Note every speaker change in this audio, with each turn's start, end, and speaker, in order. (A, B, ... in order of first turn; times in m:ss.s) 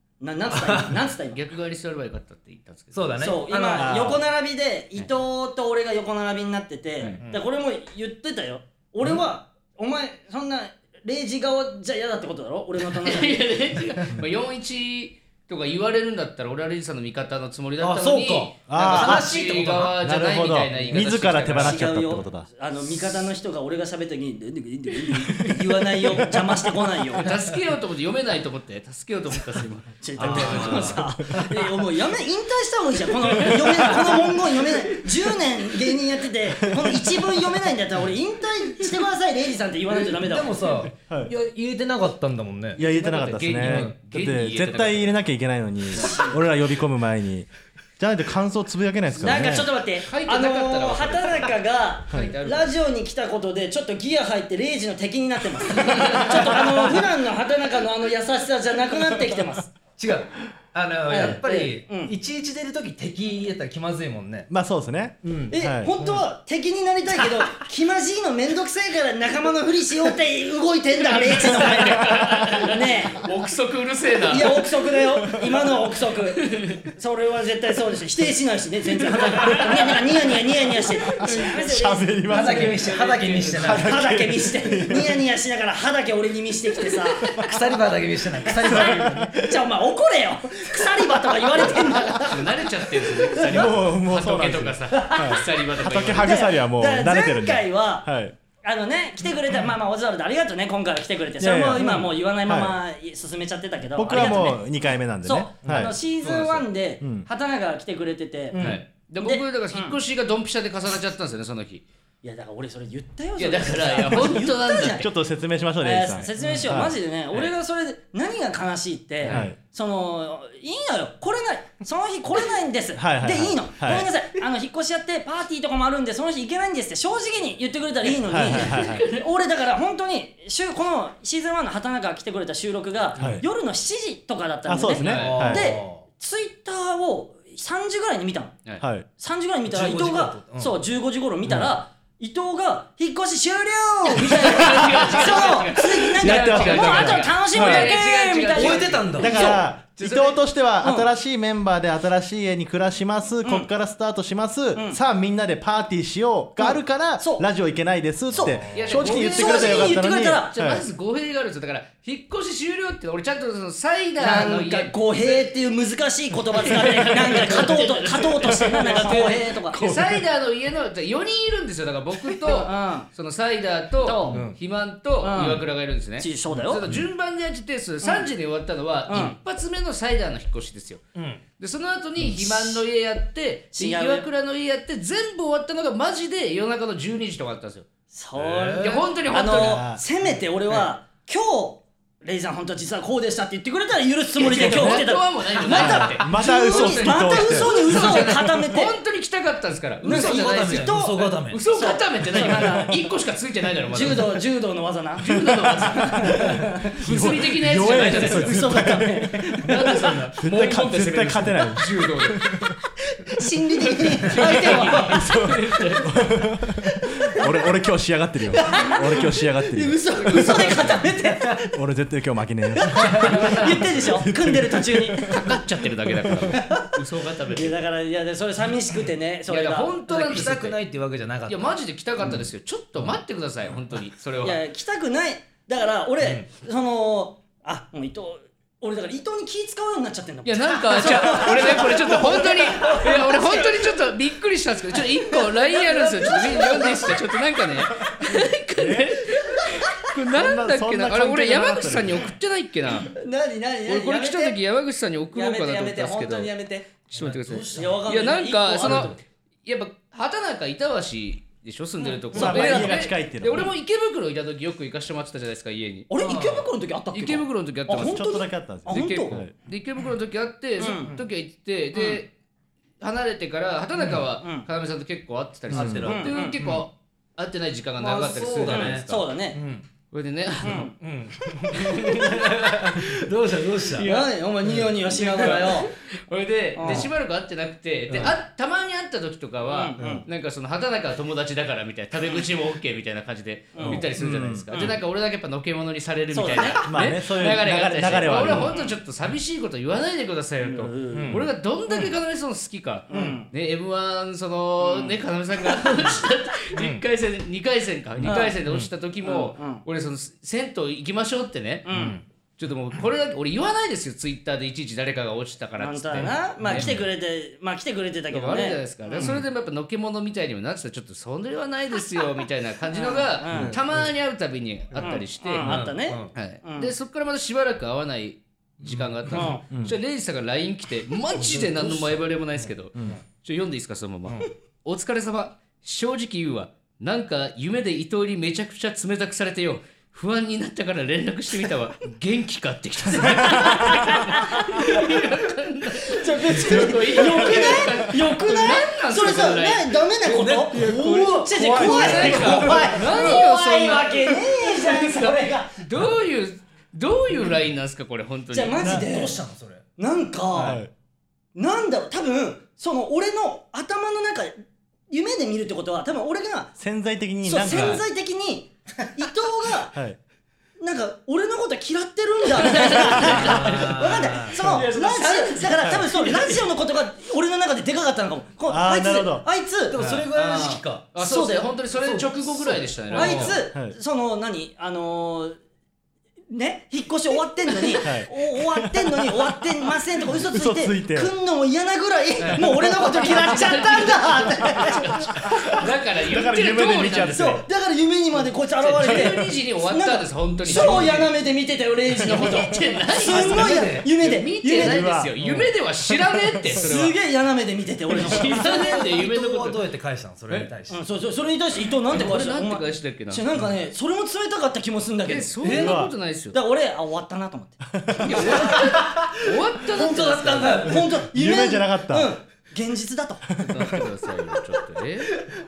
0:00.2-0:01.4 A
0:00.5-0:01.0 B
0:01.3-0:03.2 C
0:02.9-0:04.2 B
0:03.2-0:13.4 A
0:03.8-0:04.2 D
0:13.0-0:22.0 C
0:17.8-0:20.0 B
0:18.7-0:22.5 D
0:21.5-0:27.2 A
0:27.1-0:30.9 C
0:30.0-0:40.6 A
0:30.2-0:31.2 B
0:30.8-0:31.5 D
0:33.5-0:34.2 C
0:36.6-0:37.0 D
0:39.9-0:42.8 B
0:41.1-0:41.3 D
0:42.7-0:45.2 C
0:42.7-0:49.7 D
0:43.6-0:44.0 B
0:45.9-0:46.4 A
0:49.2-0:59.7 A
0:50.0-0:51.6 C
0:52.1-0:52.7 C
0:55.9-0:56.2 C
1:00.0-1:04.5 B
1:01.1-1:02.1 A
1:04.5-1:05.9 D
1:05.2-1:06.2 B
1:05.5-1:13.3 A
1:11.2-1:14.6 C
1:12.0-1:12.7 D
1:14.3-1:22.2 A
1:15.2-1:15.5 D
1:16.3-1:16.8 C
1:19.2-1:19.9 C
1:21.1-1:22.8 D
1:21.2-1:21.7 C
1:22.2-1:23.9 B
1:22.3-1:23.9 C
1:23.6-1:25.2 D
1:23.7-1:27.4 A
1:27.4-1:29.2 B
1:28.4-1:33.6 A
1:28.6-1:29.5 D
1:31.7-1:36.4 C
1:33.4-1:38.3 D
1:34.9-1:35.4 A
1:36.2-1:38.1 A
1:38.6-1:44.6 A
1:41.4-1:42.8 D
1:44.0-1:45.9 D
1:45.2-1:50.0 A
1:45.6-1:45.9 B
1:46.2-1:46.6 C
1:47.0-1:47.3 D
1:48.5-1:48.8 B
1:48.5-1:51.8 C
1:52.2-1:55.1 A
1:53.4-1:55.1 C
1:54.9-1:56.9 D
1:55.8-2:18.6 A
1:56.4-1:56.7 B
1:59.3-1:59.6 D
2:03.0-2:04.1 D
2:08.2-2:09.0 D
2:08.4-2:09.3 C
2:13.2-2:13.4 B
2:13.2-2:13.4 D
2:14.6-2:15.7 D
2:15.0-2:15.6 C
2:15.0-2:16.0 B
2:18.8-2:19.1 D
2:19.2-2:29.6 A
2:19.7-2:20.8 B
2:21.4-2:21.7 D
2:24.0-2:30.4 C
2:24.8-2:25.1 D
2:26.2-2:27.9 D
2:28.5-2:29.5 B
2:29.2-2:40.8 D
2:30.8-2:31.1 A
2:36.6-2:37.4 A
2:38.3-2:39.0 B
2:38.3-2:40.5 A
2:38.7-2:45.5 C
2:44.2-2:49.8 A
2:46.6-3:01.0 C
2:48.7-2:50.2 D
2:52.4-2:53.1 A
2:54.0-2:54.4 A
2:54.3-2:54.6 B
2:55.2-2:55.6 A
2:56.2-2:56.8 A
2:56.5-2:57.0 B
2:58.0-2:58.3 A
2:59.1-2:59.4 A
3:01.1-3:01.4 B
3:01.6-3:07.9 C
3:02.2-3:02.8 A
3:03.7-3:04.3 A
3:08.1-3:19.0 A
3:08.3-3:09.1 B
3:08.8-3:09.9 C
3:09.4-3:10.0 D
3:14.4-3:20.9 C
3:14.4-3:15.1 D
3:15.6-3:18.5 D
3:20.0-3:21.6 B
3:20.0-3:22.9 A
3:21.5-3:24.4 C
3:22.3-3:22.9 D
3:23.9-3:27.3 A
3:25.2-3:26.5 C
3:26.5-3:29.3 D
3:27.0-3:32.6 C
3:27.8-3:30.3 A
3:30.4-3:32.7 D
3:33.1-3:35.3 A
3:34.2-3:36.3 C
3:35.0-3:40.9 D
3:36.9-3:37.4 A
3:38.5-3:41.8 A
3:40.1-3:41.0 C
3:41.7-3:46.6 D
3:42.8-3:45.5 A
3:43.3-3:43.7 C
3:45.2-3:47.8 C
3:46.5-3:47.0 A
3:47.5-3:50.0 A
3:49.5-3:50.8 C
3:50.1-3:52.4 B
3:51.4-3:54.6 C
3:54.4-4:03.9 A
4:00.4-4:13.1 C
4:05.3-4:07.6 A
4:08.8-4:12.3 D
4:13.1-4:14.6 A
4:13.8-4:16.5 C
4:15.3-4:16.9 A
4:17.1-4:26.1 C
4:17.1-4:18.0 B
4:17.7-4:19.2 A
4:18.8-4:19.1 B
4:22.3-4:22.9 A
4:22.3-4:23.7 D
4:26.1-4:29.4 A
4:26.2-4:26.7 B
4:27.1-4:28.3 C
4:28.0-4:29.5 D
4:28.9-4:32.3 C
4:30.8-4:31.1 A
4:31.9-4:32.2 A
4:33.0-4:39.3 C
4:34.4-4:34.7 A
4:35.7-4:36.8 B
4:35.7-4:36.3 D
4:36.0-4:36.6 A
4:38.0-4:39.8 B
4:38.6-4:39.6 A
4:40.1-4:40.9 C
4:40.6-4:40.9 A
4:41.0-4:44.1 B
4:41.5-4:42.6 A
4:41.7-4:43.0 C
4:43.8-4:44.3 C
4:44.0-4:45.9 A
4:44.6-4:45.6 B
4:45.1-5:12.0 C
4:46.8-4:47.1 A
4:46.8-4:47.1 B
4:48.1-4:48.3 B
4:49.7-4:50.2 A
4:50.0-4:50.2 B
4:53.7-4:54.0 A
4:54.1-4:54.6 D
4:56.3-4:56.8 A
4:56.8-4:58.7 D
4:58.6-4:59.0 A
5:00.6-5:01.4 A
5:01.1-5:02.1 B
5:03.1-5:03.5 A
5:04.8-5:05.2 A
5:06.8-5:07.0 B
5:08.2-5:08.9 B
5:08.2-5:08.6 A
5:09.2-5:09.8 A
5:11.8-5:12.2 A
5:11.9-5:12.2 B
5:12.6-5:16.9 C
5:15.8-5:19.4 A
5:16.1-5:17.0 B
5:18.3-5:25.8 C
5:22.9-5:23.7 A
5:23.5-5:24.1 B
5:24.9-5:26.3 B
5:25.0-5:26.9 A
5:26.3-5:50.0 C
5:28.8-5:29.6 B
5:29.3-5:29.6 A
5:29.7-5:30.0 D
5:31.3-5:33.2 B
5:43.2-5:44.1 D
5:43.2-5:45.1 A
5:46.0-5:55.8 A
5:46.5-5:47.9 D
5:50.2-5:53.3 B
5:50.8-5:52.8 D
5:51.7-5:58.9 C
5:58.5-5:59.4 A
5:58.8-5:59.8 B
5:58.8-5:59.1 D
6:00.0-6:00.8 A
6:00.5-6:00.8 B
6:00.6-6:00.9 D
6:01.5-6:06.7 A
6:06.8-6:08.0 D
6:07.4-6:09.9 A
6:07.7-6:08.0 B
6:09.9-6:10.2 D
6:10.8-6:21.7 A
6:12.6-6:15.6 C
6:13.2-6:15.6 B
6:15.8-6:16.1 D
6:16.2-6:16.5 C
6:18.7-6:19.4 D
6:19.9-6:21.1 B
6:20.4-6:23.6 C
6:22.0-6:23.6 B
6:23.1-6:25.6 A
6:23.7-6:24.0 D
6:26.5-6:35.3 A
6:28.0-6:29.0 D
6:30.5-6:31.3 D
6:32.4-6:32.6 B
6:32.6-6:37.6 D
6:33.4-6:34.2 C
6:35.7-6:37.5 C
6:37.3-6:45.1 A
6:38.8-6:41.3 C
6:39.0-6:39.6 D
6:40.7-6:41.2 B
6:42.1-6:47.2 C
6:43.2-6:44.1 B
6:44.8-6:45.5 D
6:46.8-6:49.1 A
6:48.1-6:49.8 C
6:48.6-6:51.0 B
6:50.9-6:55.9 A
6:52.1-6:53.4 C
6:55.2-6:56.6 C
6:55.6-6:55.9 B
6:55.6-6:56.1 D
6:56.5-6:59.0 A
6:57.9-6:58.2 D
6:58.2-7:00.9 C
6:58.5-6:59.4 B
6:59.9-7:01.0 B
7:00.5-7:03.5 A
7:00.9-7:02.3 D
7:03.6-7:04.0 D
7:03.6-7:05.4 C